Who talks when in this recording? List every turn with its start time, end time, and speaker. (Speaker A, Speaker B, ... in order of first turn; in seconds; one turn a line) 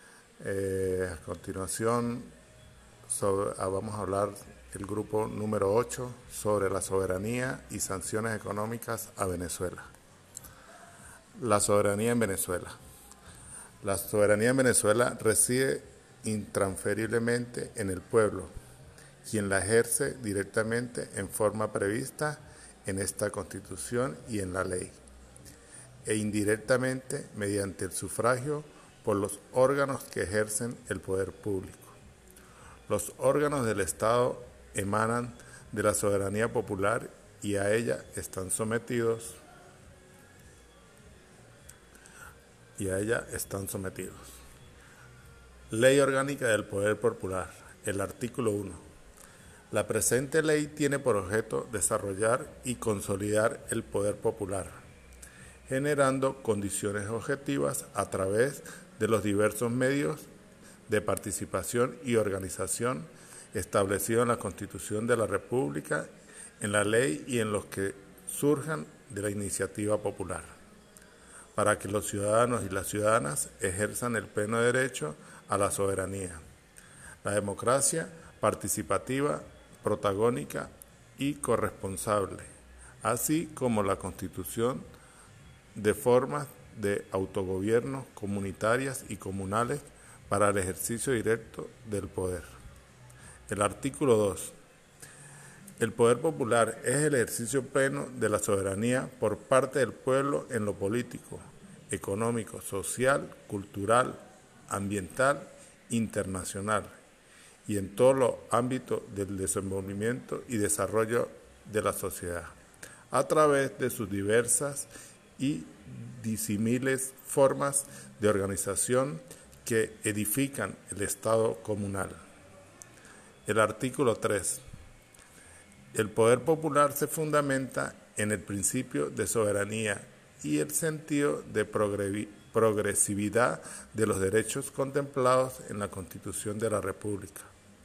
Speaker A: 0.4-2.3
Speaker A: 3.1-9.9
Speaker A: 11.3-12.8
Speaker A: 13.8-18.5
Speaker A: 19.2-25.0
Speaker A: 26.0-31.9
Speaker A: 32.9-39.4
Speaker A: 42.8-44.4
Speaker A: 45.7-48.8
Speaker A: 49.7-54.7
Speaker A: 55.7-60.3
Speaker A: 60.9-66.1
Speaker A: 66.6-70.5
Speaker A: 71.5-76.4
Speaker A: 77.2-82.5
Speaker A: 83.0-84.8
Speaker A: 85.7-92.5
Speaker A: 93.5-94.5
Speaker A: 95.8-107.0
Speaker A: 107.7-112.5
Speaker A: 113.1-122.2
Speaker A: 123.5-124.6
Speaker A: 125.9-137.5